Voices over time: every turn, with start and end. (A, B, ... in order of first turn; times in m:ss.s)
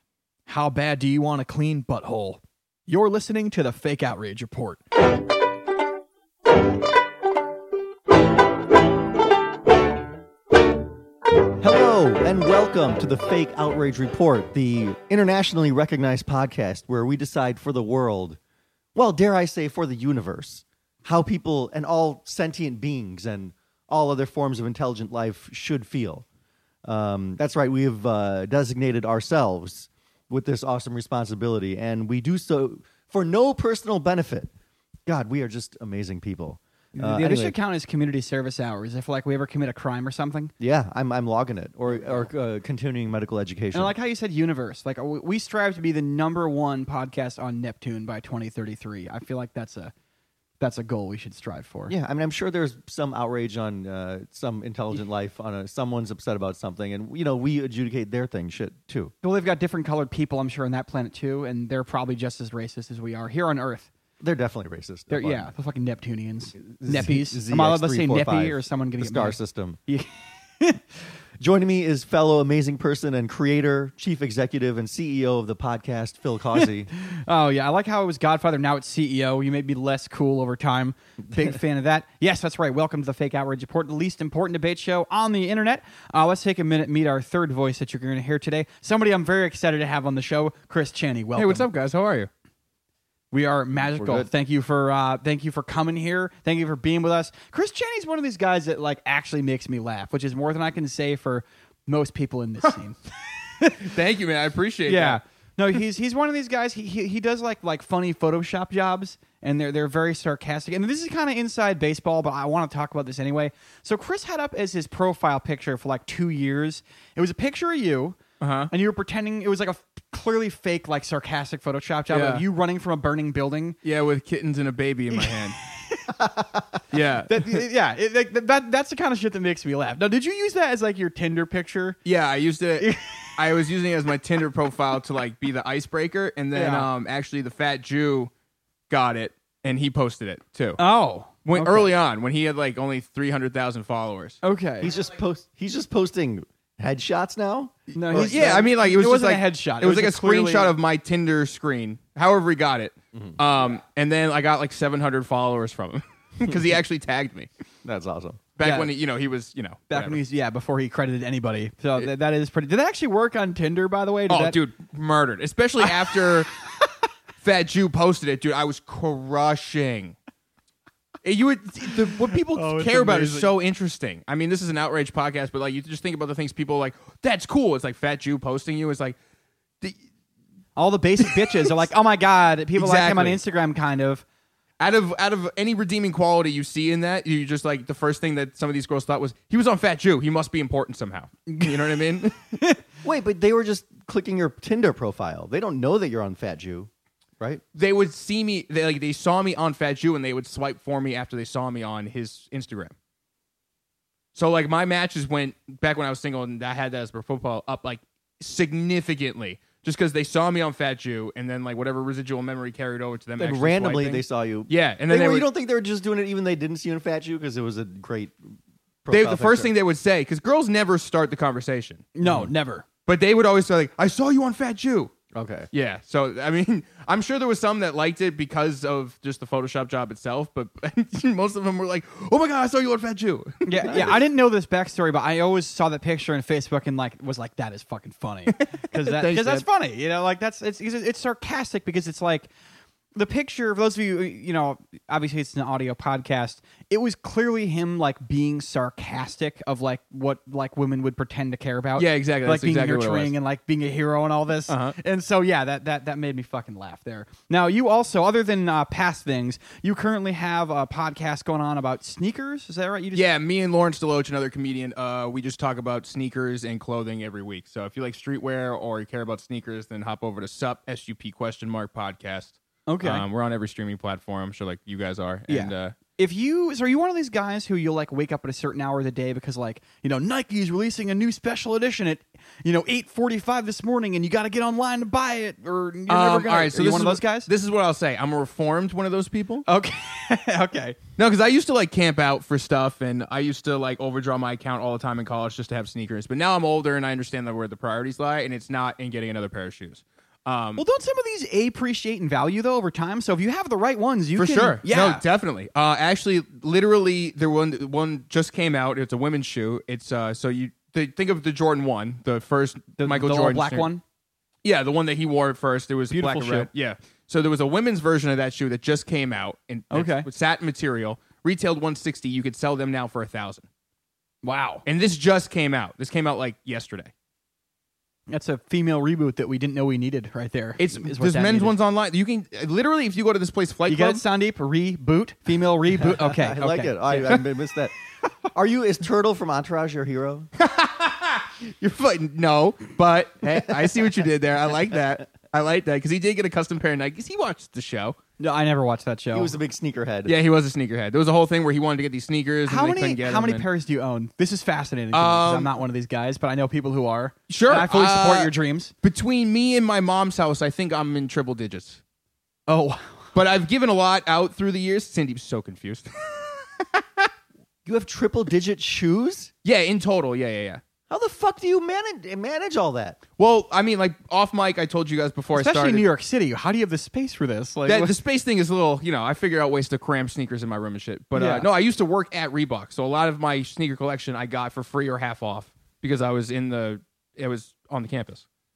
0:00.5-0:04.8 A
0:11.6-0:18.4 B
0:19.0-0:26.2 B
0:26.8-0:34.5 B
0:35.1-0:37.6 B
0:37.0-0:40.5 A
0:40.6-0:43.9 B
0:41.9-0:42.3 A
0:43.7-0:49.9 A
0:50.6-0:51.9 A
0:51.9-0:59.1 B
0:59.2-1:03.9 A
1:04.2-1:05.5 B
1:05.1-1:10.8 A
1:06.8-1:09.8 B
1:11.4-1:16.9 B
1:17.0-1:31.7 A
1:31.4-1:32.3 C
1:33.3-1:43.9 A
1:33.8-1:34.3 B
1:43.8-1:45.2 C
1:44.9-1:58.2 A
1:58.4-1:58.7 C
1:58.7-2:03.8 A
2:02.1-2:02.4 C
2:03.8-2:05.6 C
2:05.1-2:06.3 A
2:06.9-2:07.6 C
2:07.3-2:12.0 A
2:12.0-2:18.3 C
2:12.8-2:13.4 A
2:16.5-2:16.9 A
2:18.9-2:20.8 C
2:20.8-2:21.9 A
2:21.4-2:24.4 C
2:24.4-2:24.9 A
2:24.8-2:28.7 B
2:27.9-2:30.7 A
2:28.0-2:37.5 C
2:37.8-2:38.4 B
2:38.6-2:40.2 C
2:38.6-2:38.9 A
2:39.9-2:44.6 A
2:44.3-2:46.5 C
2:45.8-2:46.3 A
2:47.4-2:50.2 C
2:51.2-2:59.2 C
2:51.9-2:53.5 A
3:00.8-3:04.2 A
3:01.3-3:01.7 C
3:02.8-3:03.4 C
3:04.8-3:12.6 C
3:11.5-3:11.9 A
3:13.0-3:17.6 B
3:17.8-3:22.9 C
3:24.4-3:35.5 C
3:33.4-3:38.4 B
3:39.0-3:39.7 B
3:39.1-3:42.1 C
3:42.2-3:42.9 A
3:42.2-3:42.5 B
3:43.1-3:45.1 C
3:45.3-3:45.7 B
3:45.7-3:54.1 C
3:53.6-4:02.5 A
3:58.5-3:59.6 C
4:03.2-4:23.3 A
4:12.0-4:13.3 C
4:14.7-4:15.0 C
4:23.1-4:36.0 C
4:32.9-4:33.3 A
4:35.5-4:47.5 A
4:46.1-4:49.7 C
4:49.7-4:51.0 A
4:51.2-5:00.8 C
5:00.8-5:05.2 A
5:04.4-5:13.9 C
5:13.0-5:14.0 A
5:14.6-5:23.7 C
5:16.1-5:16.7 A
5:19.9-5:20.3 A
5:24.4-5:24.8 A
5:24.9-5:27.1 C
5:28.3-5:31.7 A
5:30.8-5:34.2 C
5:33.9-5:37.4 A
5:36.2-5:37.9 B
5:38.5-5:40.5 B
5:40.6-5:48.2 C
5:48.4-5:49.6 A
5:49.3-5:50.4 B
5:50.3-5:53.6 C
5:52.7-5:58.9 A
5:55.1-5:55.7 C
5:57.5-5:58.5 C
5:59.0-6:02.0 C
6:02.7-6:03.3 A
6:03.3-6:07.3 C
6:07.9-6:09.5 B
6:09.6-6:10.8 C
6:11.1-6:13.2 B
6:13.4-6:16.1 C
6:15.6-6:18.2 A
6:17.9-6:28.4 C
6:21.3-6:21.7 A